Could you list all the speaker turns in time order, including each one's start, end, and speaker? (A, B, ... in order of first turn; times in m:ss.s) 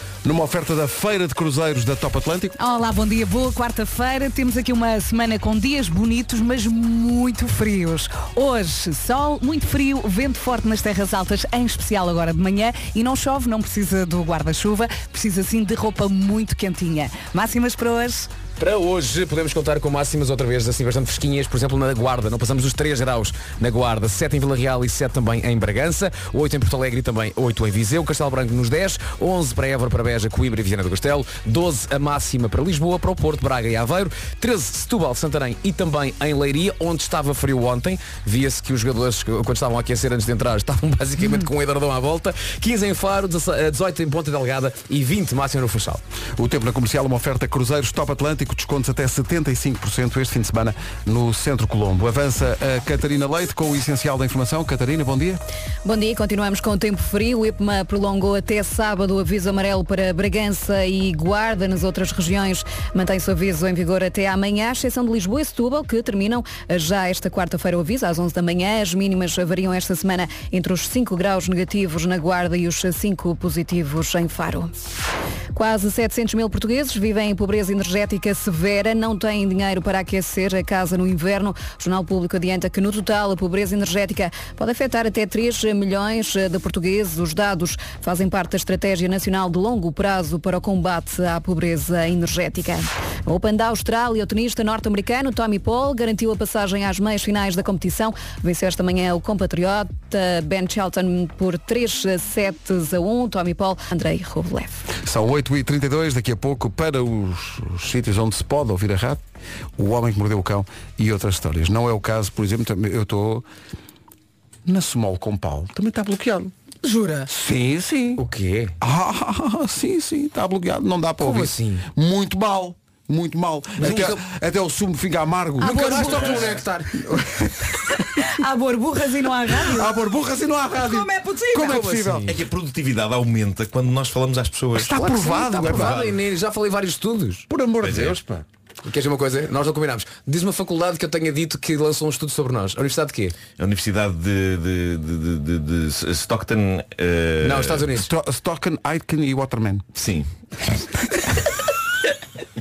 0:00.2-0:02.6 A
0:02.6-0:18.3 B
0:18.6-0:46.0 C
0:46.4-0:55.4 A
0:55.8-1:14.7 D
1:15.5-1:44.8 D
1:45.0-1:49.2 A
1:49.8-1:53.4 A
1:54.6-1:56.5 A
1:56.8-1:57.3 B
1:57.3-1:58.2 A
1:58.2-1:58.7 C
1:58.8-2:07.8 A
2:01.2-2:01.8 C
2:03.8-2:04.2 C
2:05.6-2:06.4 B
2:05.6-2:06.9 C
2:08.0-2:09.9 B
2:09.6-2:12.3 A
2:10.8-2:12.0 B
2:11.6-2:12.4 C
2:12.3-2:15.1 E
2:14.7-2:16.0 A
2:15.1-2:17.5 C
2:15.7-2:16.1 E
2:17.5-2:18.4 A
2:17.8-2:18.2 E
2:18.8-2:23.4 C
2:23.6-2:27.9 E
2:27.4-2:28.1 C
2:27.9-2:29.8 A
2:29.9-2:30.3 E